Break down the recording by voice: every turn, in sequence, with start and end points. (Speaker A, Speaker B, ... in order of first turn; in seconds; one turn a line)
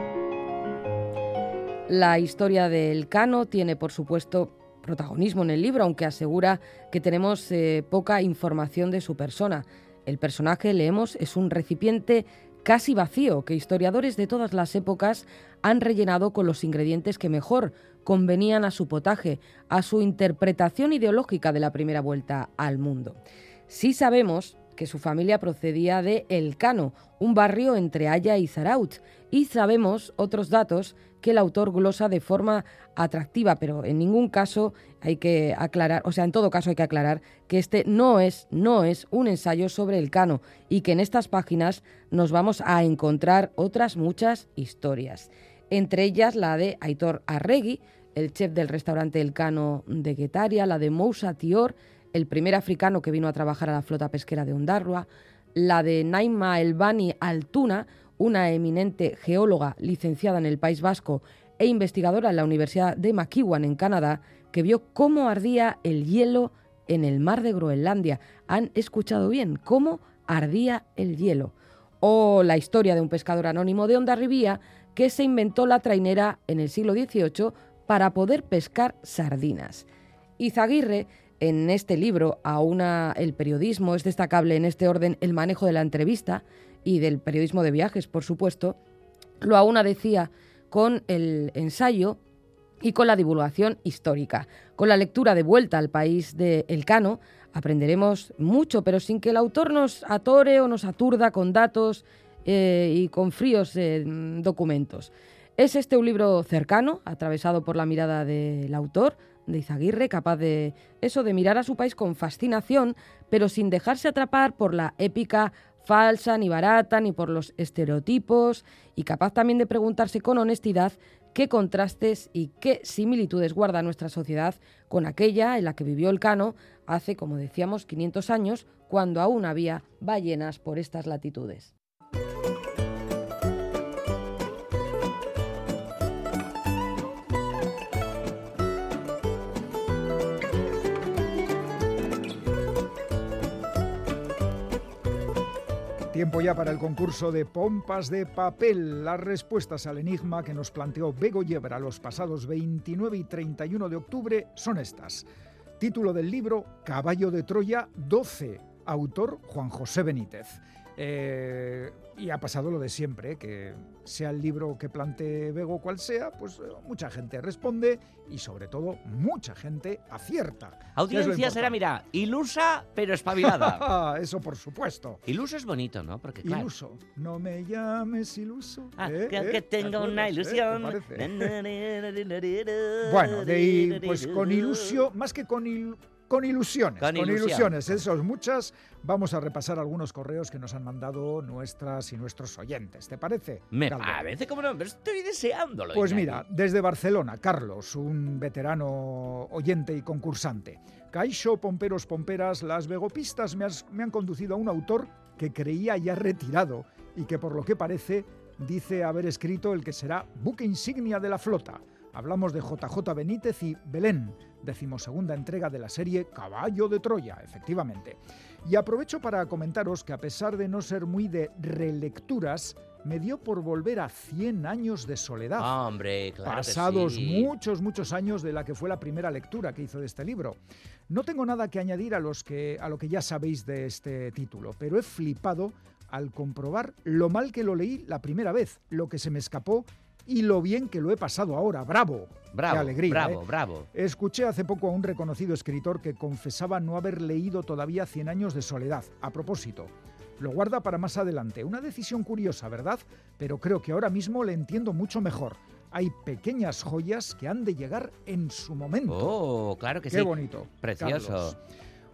Speaker A: 1.9-79.8
Speaker A: 80.4-88.8
Speaker A: 89.4-92.2
Speaker A: 92.8-131.7
Speaker B: 146.1-155.3
Speaker B: 155.8-171.8
Speaker C: 170.9-173.8
Speaker B: 173.3-175.2
Speaker C: 175.3-176.7
Speaker B: 176.4-181.5
Speaker C: 179.0-184.9
Speaker B: 183.0-194.3
Speaker C: 187.0-187.8
Speaker C: 193.7-196.4
Speaker B: 195.9-225.8
Speaker C: 225.6-227.5
Speaker B: 226.4-243.4
Speaker C: 242.5-243.9
Speaker B: 243.9-259.4
Speaker C: 259.1-261.6
Speaker B: 260.1-261.6